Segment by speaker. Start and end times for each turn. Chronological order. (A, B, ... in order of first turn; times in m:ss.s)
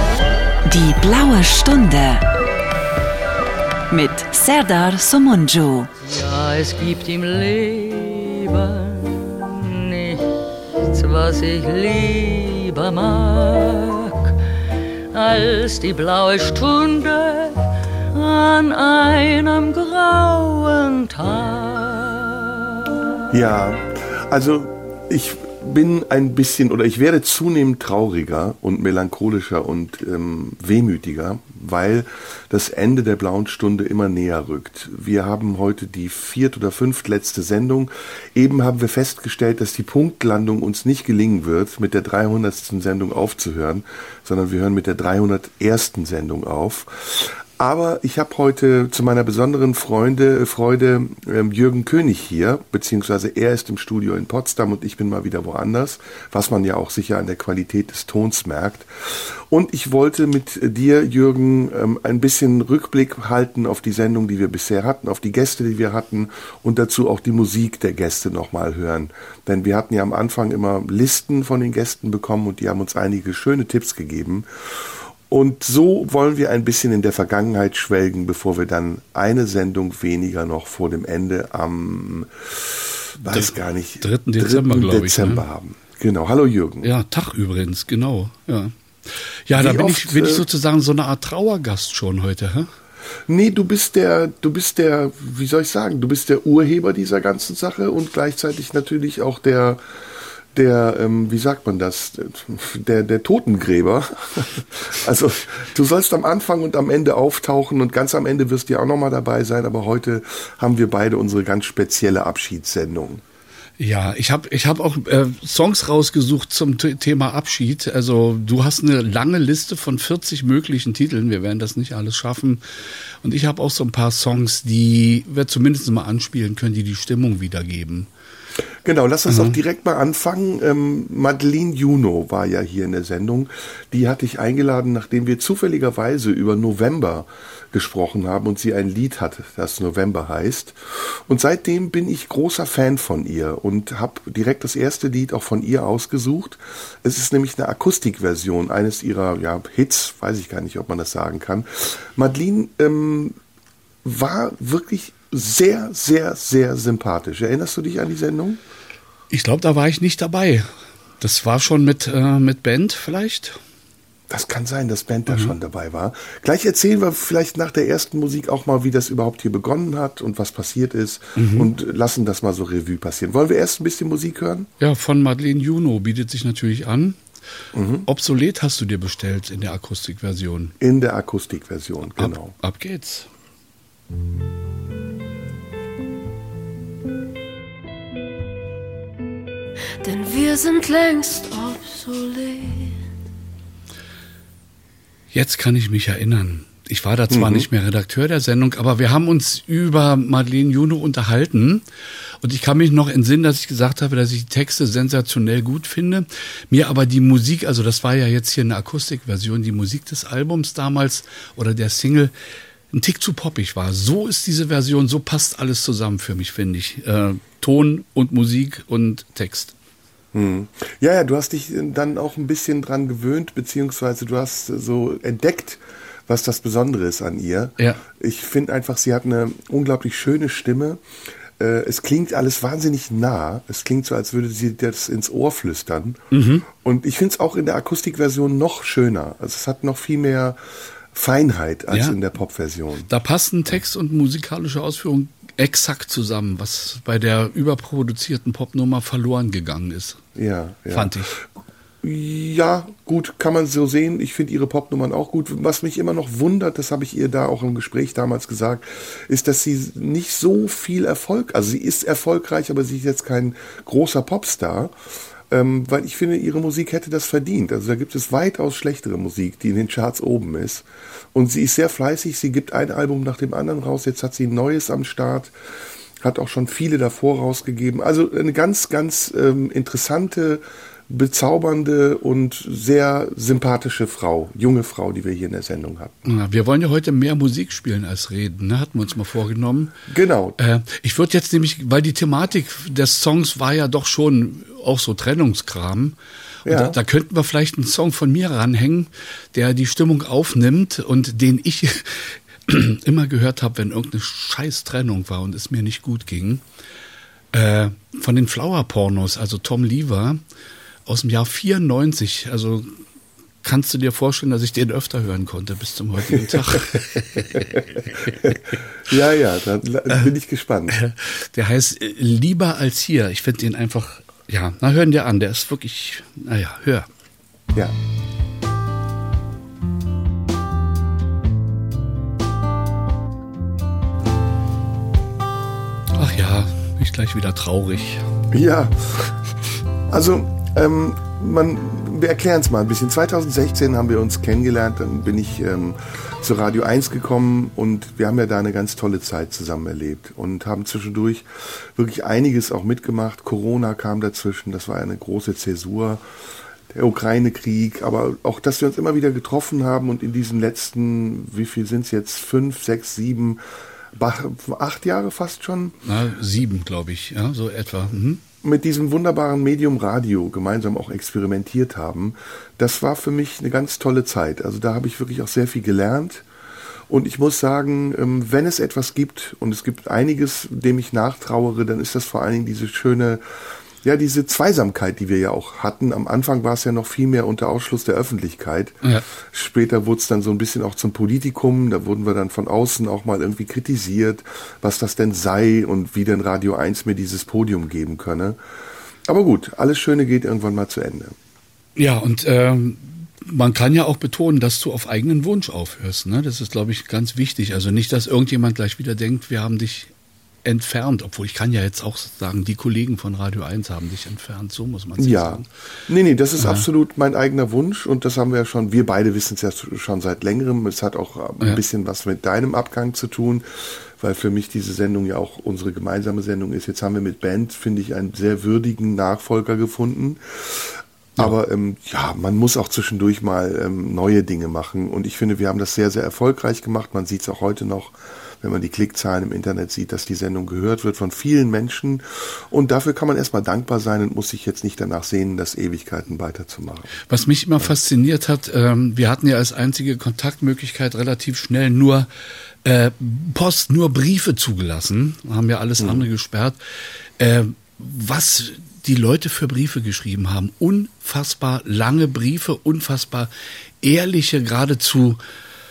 0:00.6-0:02.2 A
0:03.9-0:05.9 A
0:06.0-0:23.2 B
0:23.3-1:26.9 C
1:23.3-1:25.4 D
1:26.8-1:32.7 D
1:29.5-1:30.4 C
1:33.3-1:39.8 C
1:40.5-1:53.2 C
1:53.8-2:02.6 D
2:03.2-2:08.1 D
2:08.8-2:33.4 C
2:09.3-2:09.6 D
2:34.0-2:38.6 C
2:39.3-2:40.7 D
2:41.2-2:43.6 D
2:44.3-2:54.7 C
2:51.4-2:51.7 D
2:54.8-2:57.2 D
2:57.7-2:58.1 C
2:58.0-3:00.7 D
3:00.8-3:02.5 C
3:02.2-3:03.3 D
3:10.0-3:13.0 E
3:15.3-3:21.8 D
3:17.3-3:17.7 C
3:22.4-3:32.3 D
3:32.9-3:39.7 D
3:40.3-3:51.0 C
3:47.8-3:48.0 D
3:51.6-4:00.6 C
3:56.3-3:56.6 D
4:01.1-4:03.1 C
4:01.9-4:02.2 D
4:03.1-4:10.2 D
4:10.4-4:11.5 C
4:10.9-4:11.3 D
4:12.0-4:24.9 C
4:25.5-4:35.5 C
4:36.2-4:46.2 C
4:46.2-4:49.9 D
4:50.1-4:50.6 C
4:50.6-5:06.6 D
4:56.6-4:57.0 C
5:07.5-5:10.4 D
5:11.0-5:13.0 D
5:13.6-5:18.7 D
5:16.4-5:17.0 C
5:18.4-5:21.0 C
5:20.9-5:27.1 D
5:36.1-5:38.3 D
5:38.5-5:39.3 C
5:40.1-5:56.2 C
5:56.9-6:03.6 C
6:04.1-6:06.0 C
6:06.0-6:08.4 D
6:08.6-6:16.4 C
6:17.1-6:38.6 C
6:39.2-6:41.3 C
6:42.0-6:50.1 D
6:50.6-6:55.7 D
6:55.2-7:27.1 C
6:56.6-6:56.8 D
7:27.3-7:32.3 D
7:32.8-7:36.8 D
7:36.0-7:36.2 C
7:37.4-7:43.5 D
7:44.0-7:45.4 D